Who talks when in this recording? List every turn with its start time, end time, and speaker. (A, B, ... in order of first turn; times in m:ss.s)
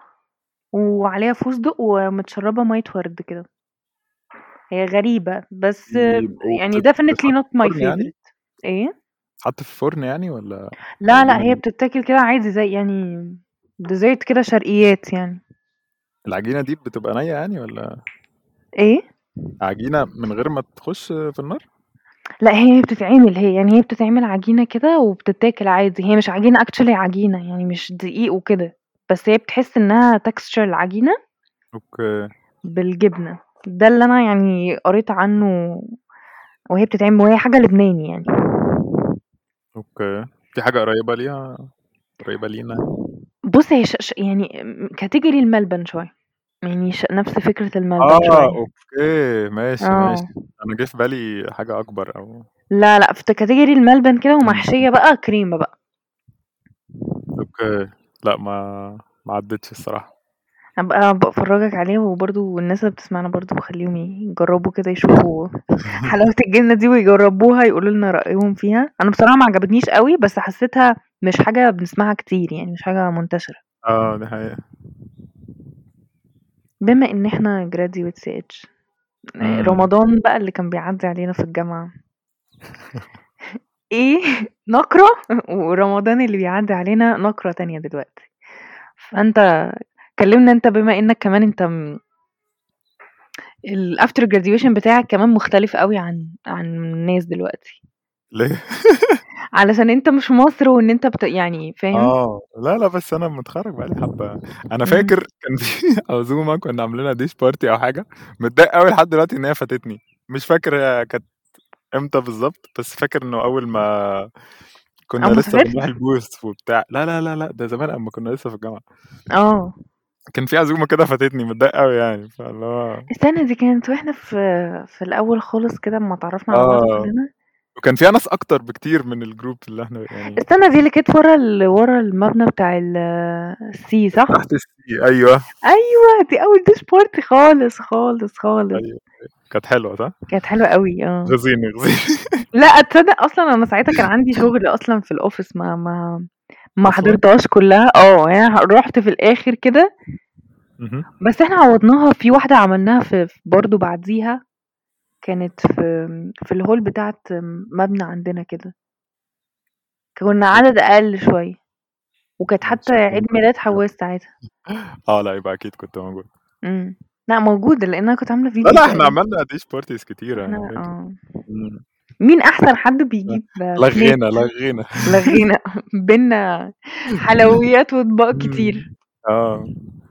0:00.7-0:03.5 A
0:04.7-0:08.9 A
0:05.9-0:08.1 B
0:09.4-0:10.6 B
0:11.0-0:15.4 A
0:11.1-0:11.6 B
0:16.3-0:17.9 B
0:19.6-0:21.6 B
0:22.4-0:31.2 A
0:31.8-0:32.3 B
0:32.7-0:35.8 A
0:36.8-0:39.1 A
0:39.8-0:41.7 B
0:42.2-0:42.8 B
0:43.5-0:44.5 A
0:45.0-0:46.1 A
0:46.7-0:48.6 A
0:48.0-0:52.5 B
0:49.8-0:50.3 A
0:52.8-0:55.7 A
0:57.4-1:00.1 B
1:00.8-1:13.6 A
1:13.9-1:14.6 B
1:16.8-1:18.7 A
1:19.4-1:19.9 B
1:19.4-1:21.9 A
1:23.9-1:28.3 A
1:29.0-1:29.4 A
1:30.2-1:31.7 A
1:33.7-1:37.8 A
1:38.3-1:39.2 B
1:39.6-1:42.1 A
1:41.9-1:51.3 B
1:44.9-1:45.1 A
1:52.0-1:54.3 B
1:55.1-1:58.8 B
1:55.2-1:55.8 A
1:59.4-1:59.7 A
2:00.4-2:03.1 B
2:03.1-2:07.3 A
2:06.5-2:07.1 B
2:07.8-2:10.4 B
2:10.4-2:14.4 A
2:14.3-2:15.4 B
2:15.7-2:18.8 A
2:18.7-2:20.1 B
2:20.3-2:21.3 A
2:21.3-2:22.4 B
2:22.5-2:26.2 A
2:26.8-2:29.9 A
2:26.8-2:27.2 B
2:30.8-2:31.1 B
2:31.2-2:34.4 A
2:35.2-2:38.7 A
2:40.2-2:41.6 A
2:42.4-2:44.3 A
2:42.6-2:43.8 B
2:45.1-2:46.3 B
2:46.7-2:49.2 A
2:48.6-2:50.8 B
2:50.5-2:51.2 A
2:51.5-2:51.8 B
2:52.2-2:54.2 A
2:53.3-2:55.4 B
2:55.1-2:58.9 A
2:58.4-2:59.7 B